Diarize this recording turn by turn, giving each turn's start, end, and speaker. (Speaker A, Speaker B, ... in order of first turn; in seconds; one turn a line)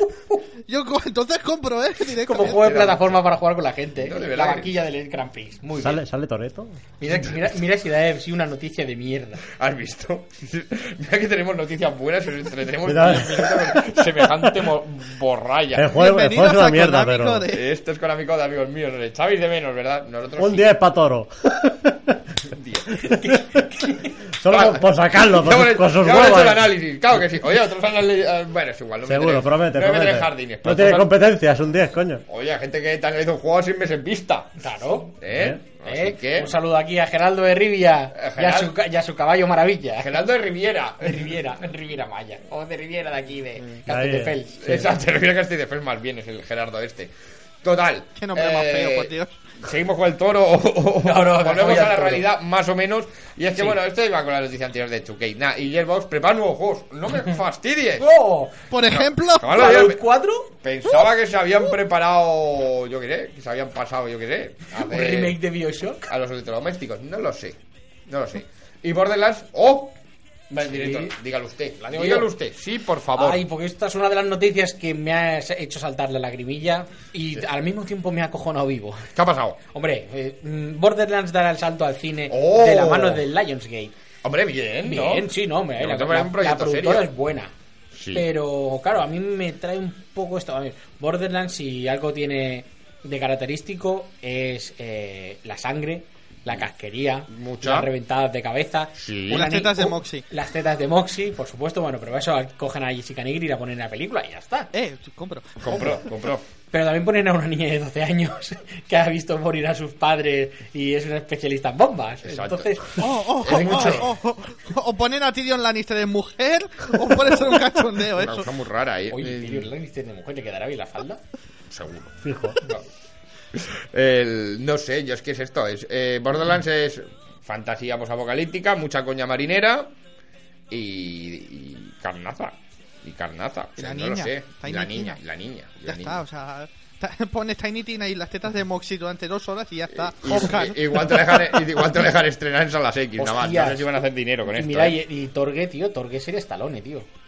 Speaker A: 0.7-2.6
Speaker B: 2.2-6.0
Speaker C: 2.4-3.2
Speaker C: 4.0-4.7
Speaker D: 5.8-6.8
Speaker B: 7.0-9.4
Speaker C: 9.6-16.0
Speaker D: 12.8-14.5
Speaker D: 15.8-17.4
Speaker A: 15.9-17.6
Speaker C: 17.5-20.7
Speaker D: 20.4-22.1
Speaker C: 22.5-23.1
Speaker B: 23.2-24.1
Speaker D: 23.3-23.6
Speaker D: 24.4-26.7
Speaker C: 24.5-31.1
Speaker D: 29.0-32.2
Speaker C: 32.3-36.5
Speaker B: 34.6-35.1
Speaker D: 35.3-35.6
Speaker B: 35.8-40.2
Speaker C: 38.1-38.7
Speaker C: 40.0-41.4
Speaker B: 41.0-44.8
Speaker D: 43.9-44.9
Speaker C: 44.6-47.1
Speaker C: 47.6-58.1
Speaker A: 48.2-49.4
Speaker B: 51.0-52.2
Speaker B: 58.0-58.6
Speaker A: 58.7-59.5
Speaker C: 58.9-60.0
Speaker B: 59.5-60.5
Speaker C: 60.6-65.4
Speaker B: 64.7-66.0
Speaker C: 66.0-70.0
Speaker B: 70.5-71.1
Speaker C: 70.5-73.4
Speaker B: 71.8-72.3
Speaker B: 73.2-79.1
Speaker C: 79.1-79.6
Speaker B: 79.7-83.9
Speaker C: 82.3-83.2
Speaker C: 84.2-87.1
Speaker B: 84.8-87.5
Speaker C: 87.9-88.2
Speaker B: 88.1-104.7
Speaker C: 97.3-97.9
Speaker C: 99.0-99.5
Speaker A: 99.3-100.2
Speaker A: 104.7-105.6
Speaker C: 105.6-106.4
Speaker B: 106.7-113.0
Speaker C: 112.2-114.1
Speaker A: 113.0-118.5
Speaker B: 113.5-113.8
Speaker C: 117.2-117.6
Speaker C: 118.1-119.7
Speaker B: 119.1-121.2
Speaker C: 121.7-122.8
Speaker D: 122.2-122.6
Speaker C: 123.5-129.9
Speaker C: 130.7-136.2
Speaker A: 133.8-135.2
Speaker A: 135.8-141.4
Speaker C: 139.9-144.9
Speaker B: 143.2-143.9
Speaker B: 144.5-147.1